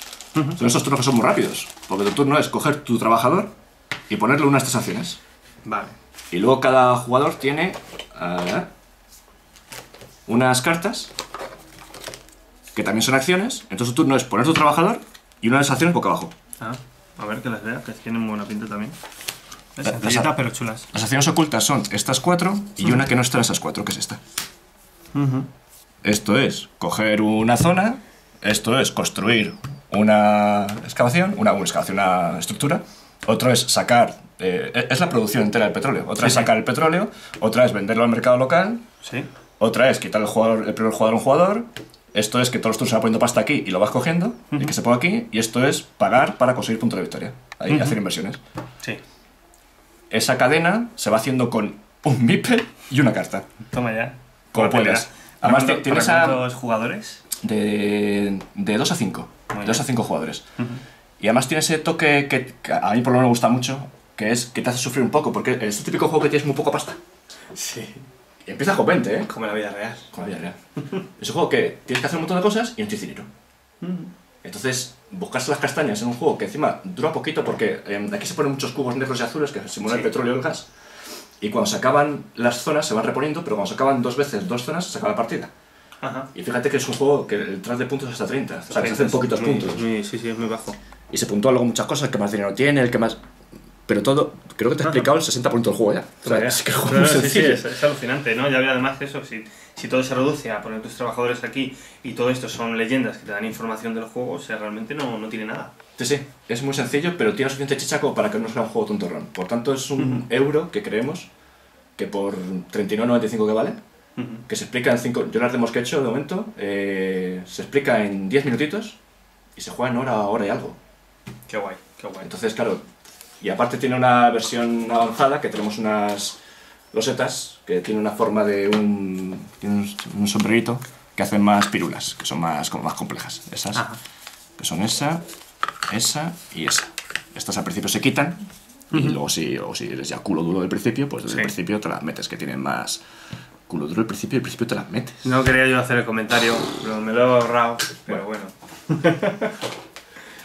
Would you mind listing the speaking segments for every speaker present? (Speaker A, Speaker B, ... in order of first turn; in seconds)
Speaker A: 0.3-0.6, 5.7-6.0, 16.6-19.0, 19.8-20.9, 25.1-25.5, 36.2-36.5, 39.0-39.3, 47.7-48.0, 53.7-57.2, 59.5-59.8, 67.5-68.1, 69.3-70.1, 73.8-74.1, 86.0-86.3, 88.7-90.8, 96.2-105.7, 110.0-110.3, 114.2-114.5, 121.5-122.3, 145.2-149.6
Speaker B: 0.6-3.5, 4.1-5.2, 6.3-8.7, 10.3-11.1, 12.7-16.3, 19.8-20.3, 20.9-24.2, 26.0-38.8, 39.6-48.4, 50.1-53.5, 54.5-56.5, 57.4-60.4, 61.2-67.0, 68.5-69.3, 70.1-70.6, 71.2-73.3, 74.4-80.7, 81.4-85.5, 86.3-89.8, 91.1-93.2, 93.9-97.7, 106.0-111.3, 112.0-113.8, 114.5-119.0, 119.6-120.8, 122.2-122.9, 123.4-126.4, 126.9-133.9, 134.6-135.2, 135.9-143.0, 143.7-145.3